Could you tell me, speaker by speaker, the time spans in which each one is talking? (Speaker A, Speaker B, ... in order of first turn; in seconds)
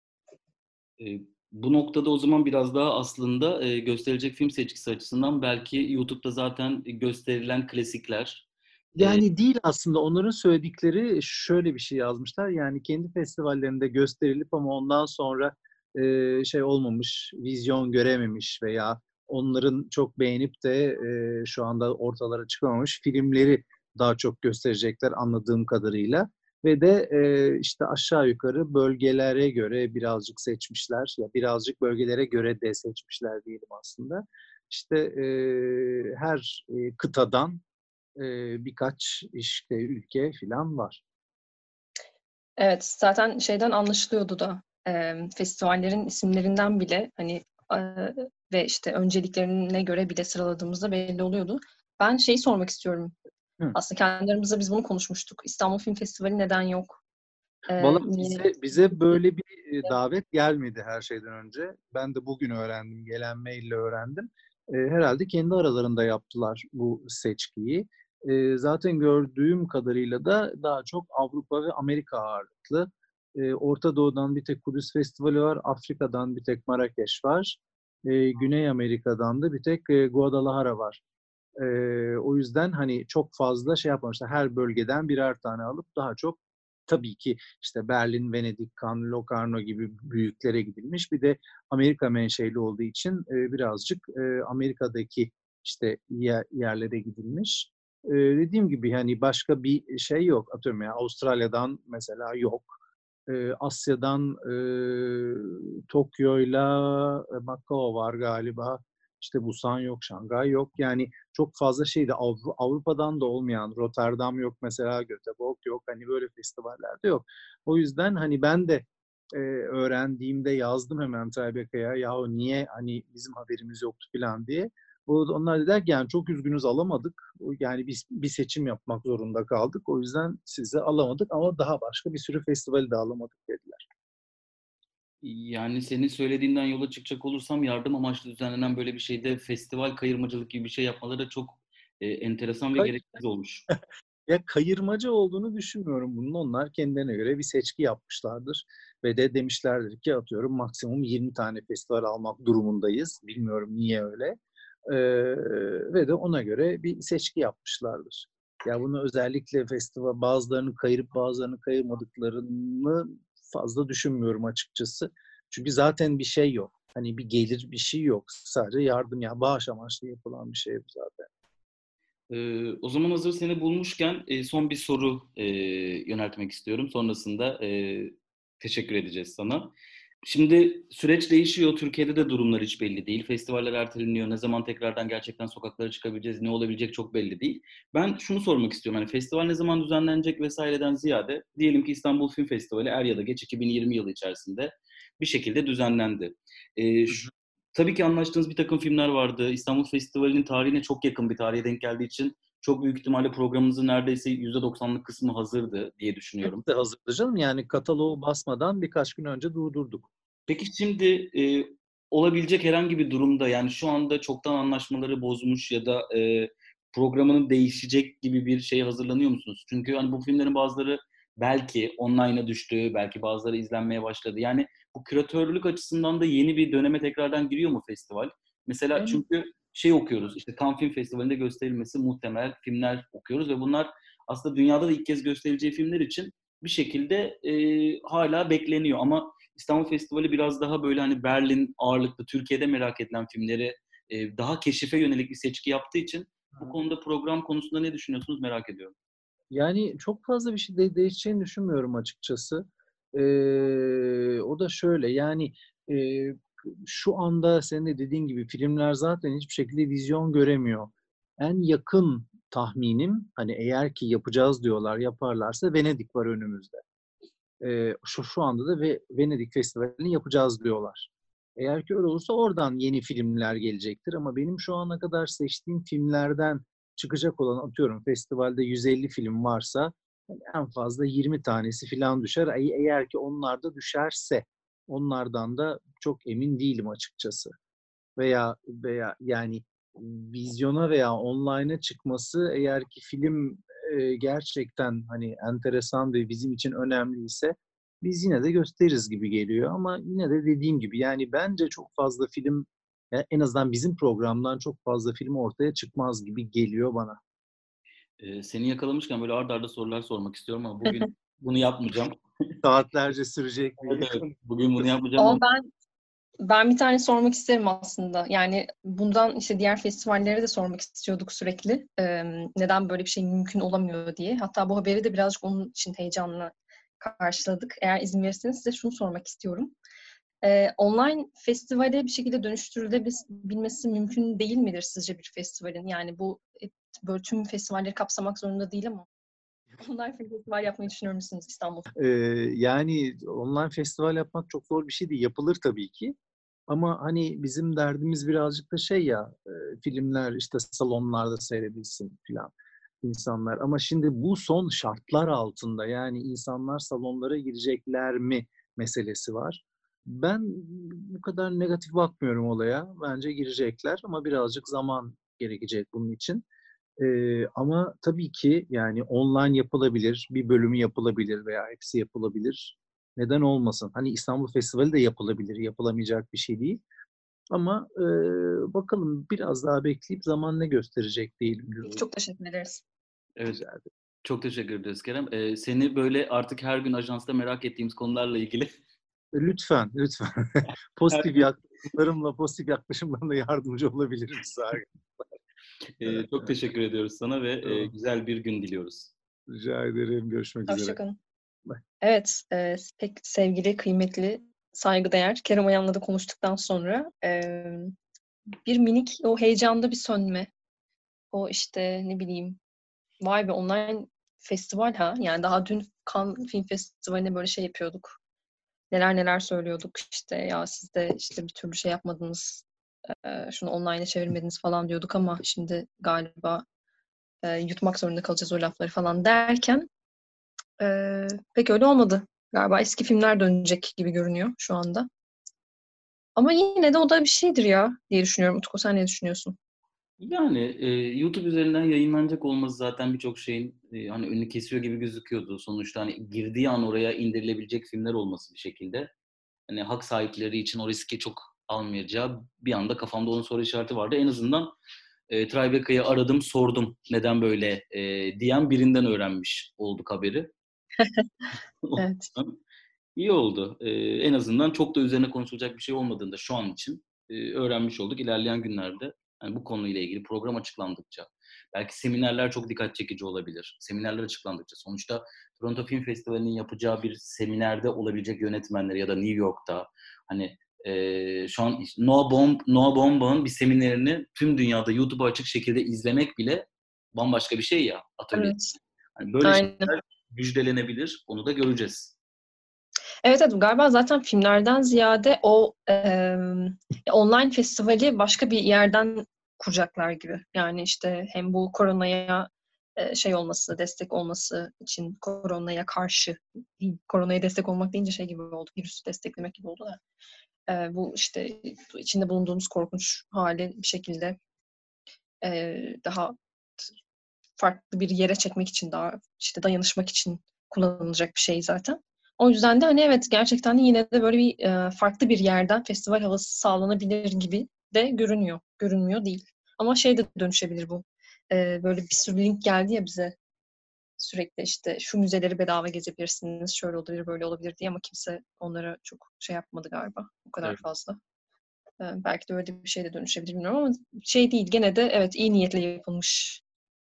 Speaker A: 1.0-8.4, 9.0-9.2, 135.2-143.6, 172.3-179.7, 180.2-206.6, 210.5-248.9, 308.2-312.5, 313.8-315.4, 383.4-383.6, 384.2-388.7, 396.0-399.1, 440.2-449.1, 449.7-454.7, 455.3-460.5, 461.8-462.6, 463.1-488.5, 489.2-492.1
Speaker B: 8.9-37.6, 38.2-41.0, 57.8-81.0, 81.6-102.7, 103.3-133.9, 144.3-171.3, 206.4-210.1, 228.9-229.2, 249.5-266.8, 267.6-287.5, 288.2-307.2, 312.6-314.9, 341.9-346.1, 346.7-366.4, 367.0-376.8, 377.5-382.0, 383.5-383.8, 389.3-394.9, 396.0-396.5, 397.6-397.9, 399.5-401.0
Speaker C: 42.6-53.1, 53.7-57.0, 57.7-59.0, 315.2-315.7, 316.4-329.7, 330.4-339.1, 339.8-341.9, 381.8-382.8, 400.7-401.2, 402.0-407.9, 408.6-410.5, 411.3-412.6, 413.2-418.2, 418.9-426.6, 427.4-429.9, 430.8-435.1, 436.4-439.6, 461.0-461.3, 462.0-462.3, 488.3-488.8, 489.4-489.9, 493.2-510.0, 510.7-514.4, 515.4-516.9, 517.6-533.3, 534.2-541.2, 542.0-546.6